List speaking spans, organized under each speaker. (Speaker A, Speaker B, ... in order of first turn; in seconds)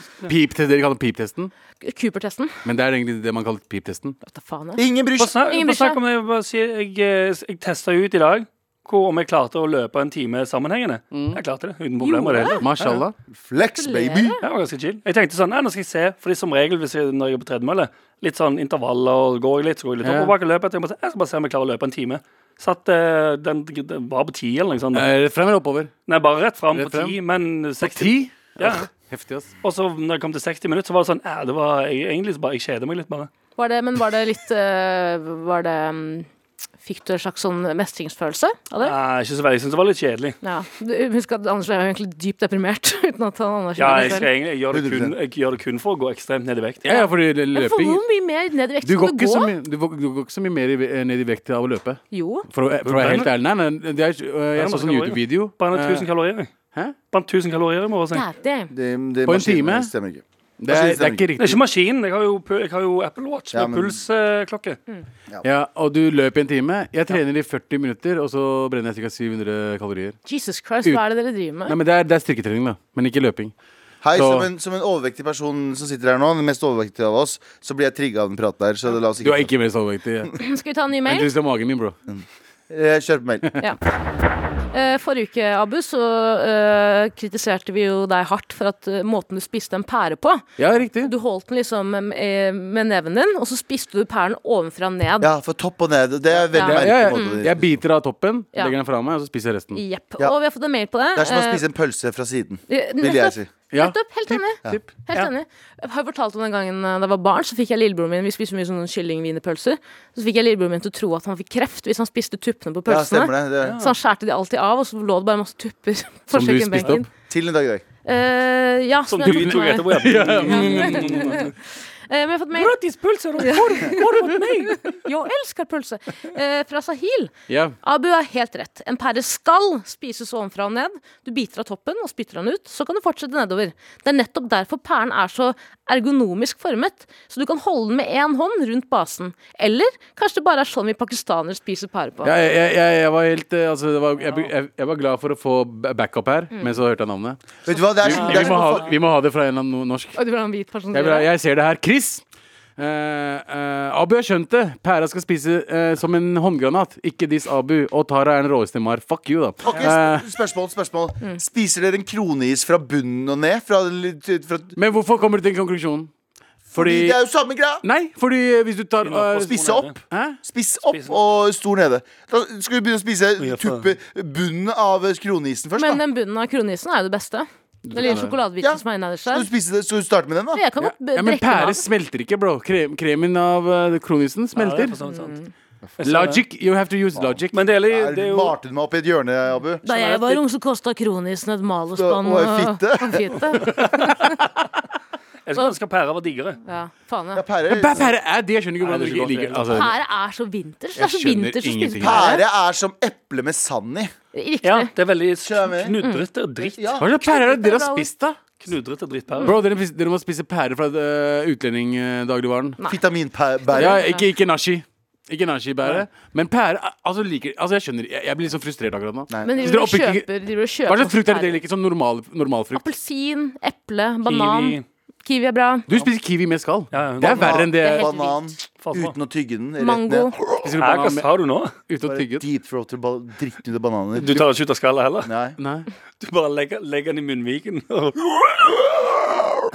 Speaker A: 0.2-1.5, 2.6-4.2, 11.1-11.4, 12.6-13.1, 20.0-20.3, 24.9-25.9, 26.7-27.2, 27.8-29.5, 43.9-44.2, 46.9-48.0, 48.8-56.1, 59.3-59.9, 60.6-61.6, 65.4-70.2, 71.7-73.5, 74.1-74.5, 79.2-80.4, 81.0-82.0, 90.6-91.1, 96.6-99.8, 103.7-104.9, 116.3-117.0, 119.2-121.4, 127.5-127.8, 142.2-150.2, 150.9-152.2, 152.8-160.3, 164.8-166.1, 166.7-167.2, 167.8-170.4, 177.9-178.3, 180.8-185.0, 186.0-187.7, 197.7-199.9, 201.0-202.3, 207.0-208.4, 209.4-212.8, 213.7-220.3, 220.9-222.8, 225.9-228.1, 230.6-231.3, 231.9-232.5, 235.6-235.9
Speaker B: 1.8-2.6, 4.2-6.0, 12.0-12.6, 13.8-14.4, 33.6-36.3, 36.8-38.9, 40.4-44.3, 46.9-49.5, 52.1-52.5, 58.1-58.7, 70.3-71.8, 80.4-81.3, 84.7-90.5, 91.0-95.3, 96.5-97.4, 99.7-101.6, 102.7-117.1, 118.0-121.5, 122.1-122.8, 123.4-142.3, 150.2-151.3, 175.8-179.5, 180.5-181.8, 185.1-185.5, 189.8-194.4, 196.7-197.4, 199.7-202.4, 204.3-204.9, 206.0-206.2, 207.2-208.1, 213.7-214.2, 219.4-221.6, 222.7-225.9, 227.7-228.6, 229.8-230.3
Speaker C: 4.8-5.4, 13.3-14.4, 44.7-45.1, 58.7-61.3, 63.5-64.0, 74.0-79.5, 82.1-83.5, 95.2-97.8, 101.2-103.5, 112.9-113.8, 117.3-117.8, 147.6-148.9, 159.6-164.8, 166.7-167.8, 169.4-176.0, 178.6-180.6, 187.2-190.4, 191.9-193.6, 197.3-198.1, 202.0-204.1, 205.4-206.0, 206.6-207.2, 212.9-214.0, 219.3-219.7, 227.2-230.5, 232.0-234.5, 235.2-235.6
Speaker D: 5.2-13.0, 14.4-25.1, 26.1-28.9, 29.6-33.3, 38.8-40.4, 43.8-46.8, 52.9-53.3, 54.6-56.5, 57.1-58.2, 61.4-64.8, 113.6-113.9, 119.1-121.5, 122.5-124.9, 148.2-148.7, 169.0-170.0, 170.9-171.2, 173.4-173.9, 184.6-185.4, 186.0-186.4, 187.5-188.6, 195.5-196.6, 198.8-199.9, 204.6-206.9, 208.6-209.6, 224.3-224.8, 226.9-227.7, 228.8-229.2, 230.7-231.8, 234.2-235.3, 236.2-239.0